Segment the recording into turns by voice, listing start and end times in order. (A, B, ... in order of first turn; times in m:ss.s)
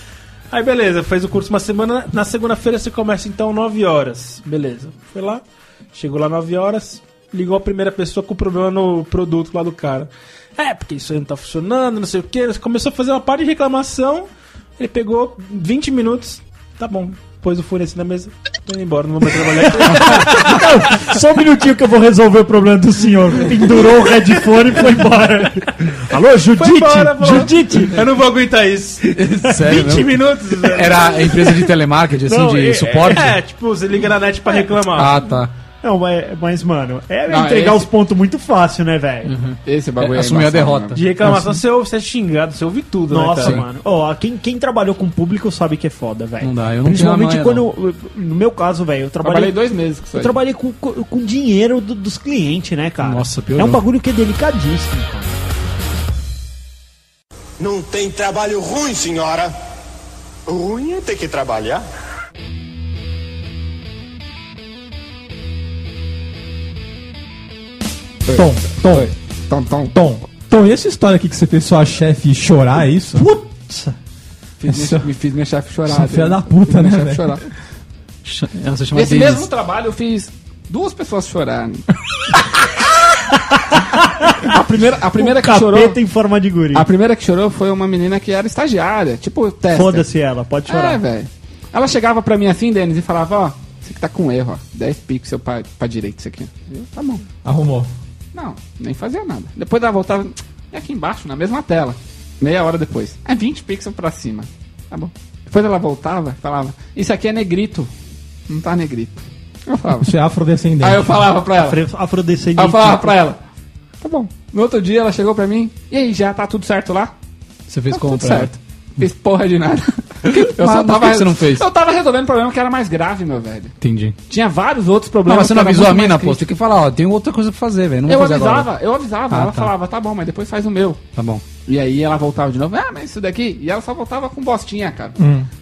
0:00.5-0:20.6 A
0:19.9-0:28.0 B
0:26.6-0:31.5 A
0:29.2-0:33.4 C
0:32.2-0:33.4 B
0:33.1-0:35.2 A
0:34.9-0:35.5 C
0:35.8-0:39.3 B
0:37.3-0:37.9 D
0:39.2-0:41.6 C
0:39.6-0:41.0 D
0:40.9-0:43.6 A
0:43.1-0:49.5 B
0:46.4-0:47.6 C
0:49.2-0:50.3 D
0:50.1-0:55.4 B
0:53.0-0:53.8 C
0:57.6-0:59.5 E
1:00.5-1:01.8 E
1:08.2-1:09.9 D
1:08.3-1:09.1 F
1:09.9-1:13.3 F
1:13.2-1:13.9 B
1:14.6-1:17.4 D
1:14.7-1:15.1 F
1:15.8-1:17.4 F
1:18.2-1:19.5 C
1:18.9-1:21.9 D
1:23.5-1:26.9 B
1:24.4-1:26.0 D
1:26.7-1:30.1 D
1:29.7-1:31.0 B
1:30.7-1:37.2 D
1:37.4-1:37.9 F
1:38.3-1:47.9 D
1:48.5-1:50.1 D
1:49.9-1:51.3 F
1:50.8-1:51.8 D
1:51.6-1:53.2 B
1:52.6-1:53.4 D
1:54.0-1:57.1 D
1:57.7-1:58.6 C
1:57.9-2:03.7 D
2:00.2-2:01.6 C
2:03.8-2:04.1 C
2:04.3-2:06.4 D
2:05.2-2:08.7 C
2:08.1-2:11.0 D
2:09.3-2:09.7 C
2:11.2-2:11.4 C
2:11.6-2:15.2 D
2:15.2-2:15.5 F